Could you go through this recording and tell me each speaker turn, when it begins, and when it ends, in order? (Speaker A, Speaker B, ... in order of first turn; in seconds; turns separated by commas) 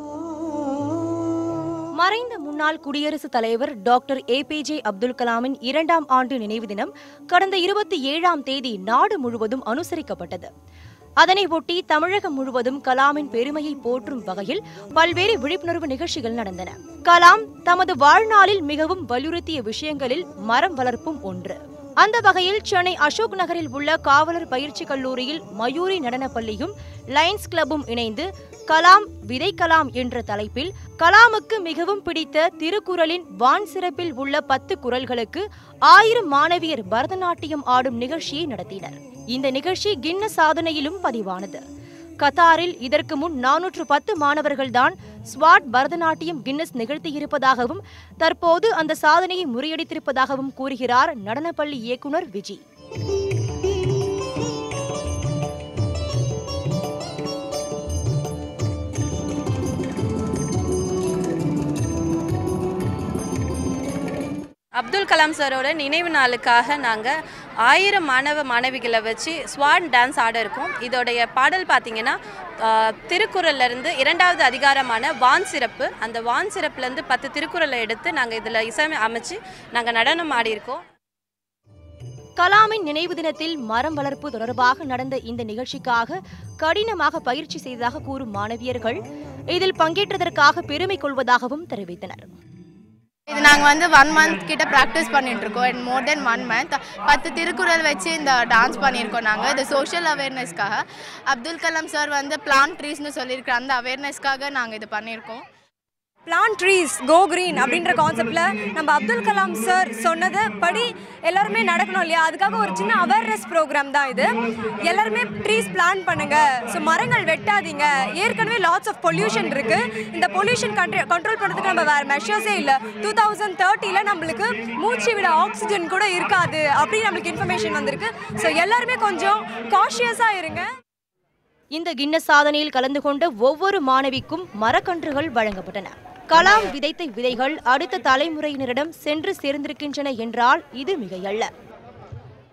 Speaker A: 2.0-10.5, Speaker A: 11.2-41.6, Speaker A: 42.2-52.6, Speaker B: 64.8-80.8, Speaker A: 82.4-92.3, Speaker C: 93.3-105.4, Speaker D: 106.2-130.7, Speaker A: 131.7-141.5